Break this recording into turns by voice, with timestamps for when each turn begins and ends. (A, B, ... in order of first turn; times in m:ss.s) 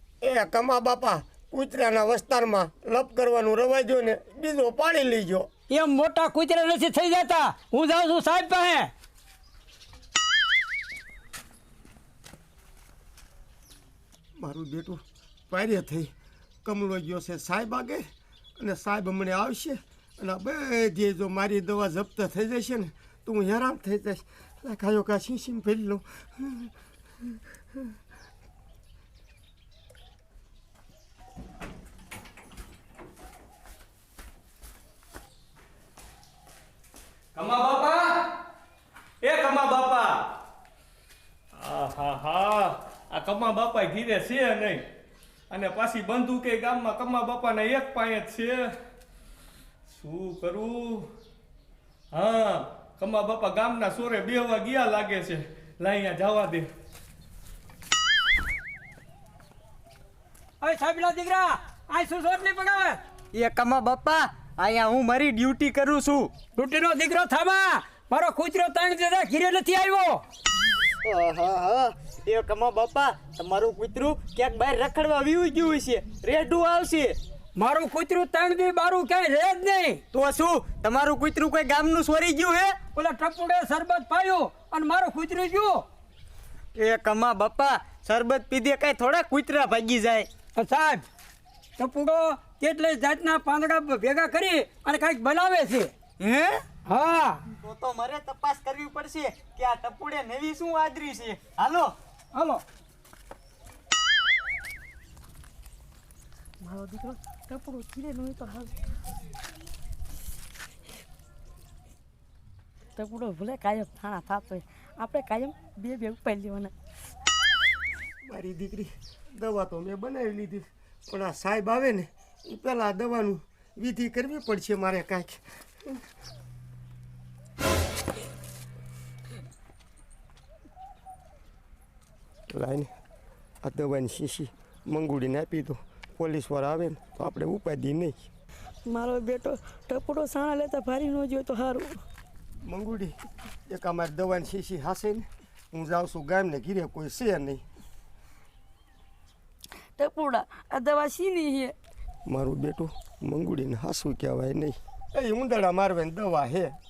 0:00.2-0:05.5 A
0:05.7-0:08.9 B
0:14.4-0:16.1 A
0:16.6-0:18.0 A
0:18.6-0:26.7 A
0:37.3-0:38.2 C
0:39.2-0:40.2 C
0:41.5-0:44.8 C
0:45.5-0:48.6 C
0:49.9-0:51.1 C
0:52.1-0:56.7 C
1:00.6-1:03.0 B
1:03.3-1:06.3 D
1:06.6-1:10.2 B
1:11.0-1:17.2 D
1:17.6-1:20.0 B
1:20.1-1:22.8 D
1:22.9-1:25.8 B
1:26.7-1:30.3 D
1:30.6-1:31.0 B
1:31.8-1:35.9 B
1:36.2-1:36.6 D
1:36.9-1:37.4 B
1:37.6-1:42.4 D
1:46.6-1:48.7 E
1:53.0-1:56.7 E
1:58.2-2:06.0 A
2:12.5-2:12.9 A
2:13.6-2:18.3 A
2:18.8-2:22.0 E
2:22.6-2:23.2 A
2:23.7-2:27.6 A
2:30.0-2:31.7 E
2:32.3-2:36.7 A